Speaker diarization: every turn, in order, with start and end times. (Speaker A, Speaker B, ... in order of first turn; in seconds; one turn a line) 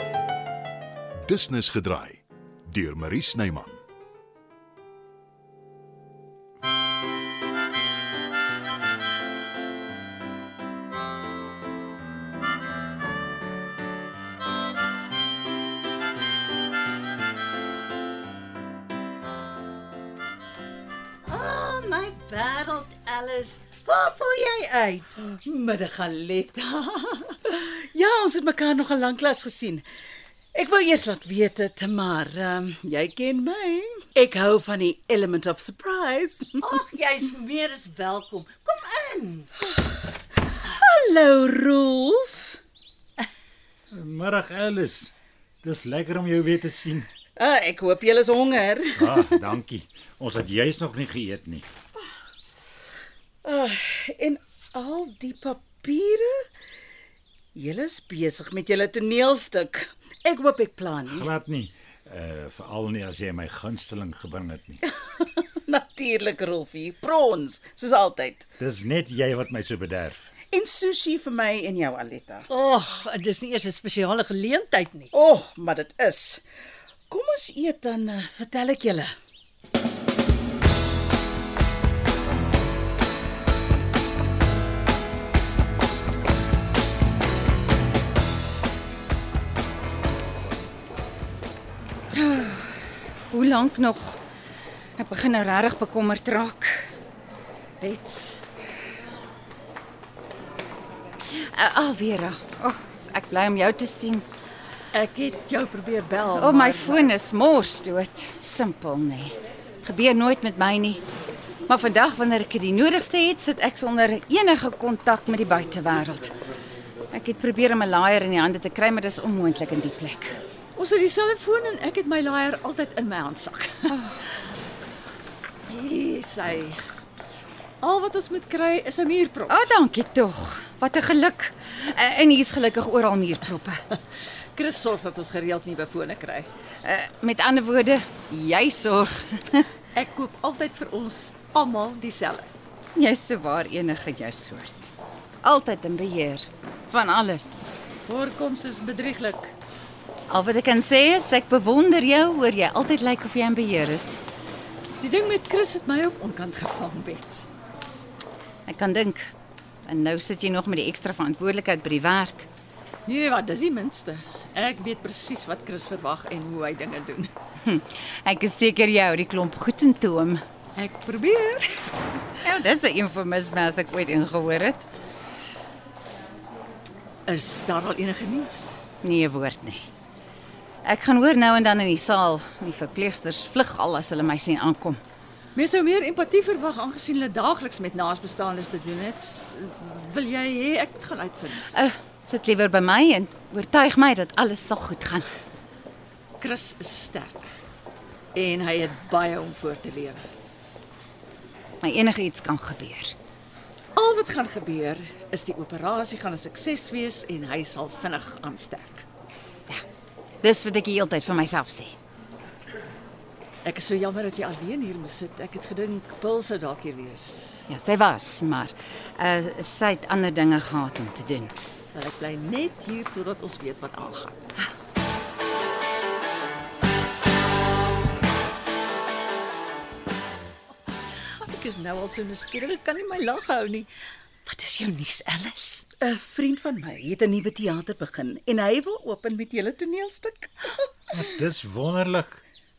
Speaker A: 1.3-3.8
Speaker B: 21.2-25.4
Speaker C: 25.4-27.4
Speaker D: 27.5-29.9
Speaker D: 30.6-36.6
Speaker B: 36.6-39.5
Speaker D: 40.8-42.6
Speaker E: 43.9-45.1
Speaker E: 45.6-47.1
Speaker D: 47.4-49.5
Speaker E: 49.0-51.6
Speaker D: 53.4-56.4
Speaker D: 57.5-61.3
Speaker E: 61.1-64.8
Speaker D: 64.9-68.5
Speaker E: 68.6-70.3
Speaker D: 70.5-72.5
Speaker B: 72.5-75.1
Speaker D: 75.1-76.4
Speaker D: 77.1-79.1
Speaker F: 92.1-94.2
Speaker F: 95.0-96.9
Speaker C: 97.8-98.4
Speaker F: 101.3-104.2
Speaker C: 104.9-107.2
Speaker F: 106.4-111.0
Speaker F: 111.7-116.3
Speaker F: 117.1-120.4
Speaker C: 120.8-124.1
Speaker C: 125.7-126.8
Speaker C: 127.8-129.7
Speaker F: 129.5-133.8
Speaker C: 134.6-136.5
Speaker F: 136.8-139.7
Speaker C: 139.9-142.5
Speaker F: 143.0-144.9
Speaker F: 145.4-147.6
Speaker C: 148.1-149.6
Speaker F: 150.3-154.2
Speaker C: 155.0-157.5
Speaker F: 158.7-159.3
Speaker F: 159.8-162.5
Speaker C: 163.1-167.3
Speaker F: 167.6-170.4
Speaker C: 170.8-171.9
Speaker F: 172.5-174.9
Speaker C: 177.3-178.8
Speaker F: 179.0-179.8
Speaker F: 180.8-185.0
Speaker C: 185.6-191.8
Speaker F: 191.7-195.3
Speaker C: 196.4-197.5
Speaker C: 198.3-200.2
Speaker F: 201.8-203.2
Speaker C: 204.0-209.1
Speaker F: 210.4-211.9
Speaker C: 213.7-217.7
Speaker F: 217.7-221.5
Speaker C: 221.9-224.4
Speaker B: 231.3-233.9
Speaker B: 234.5-235.9
Speaker D: 236.0-240.5
Speaker E: 241.1-242.4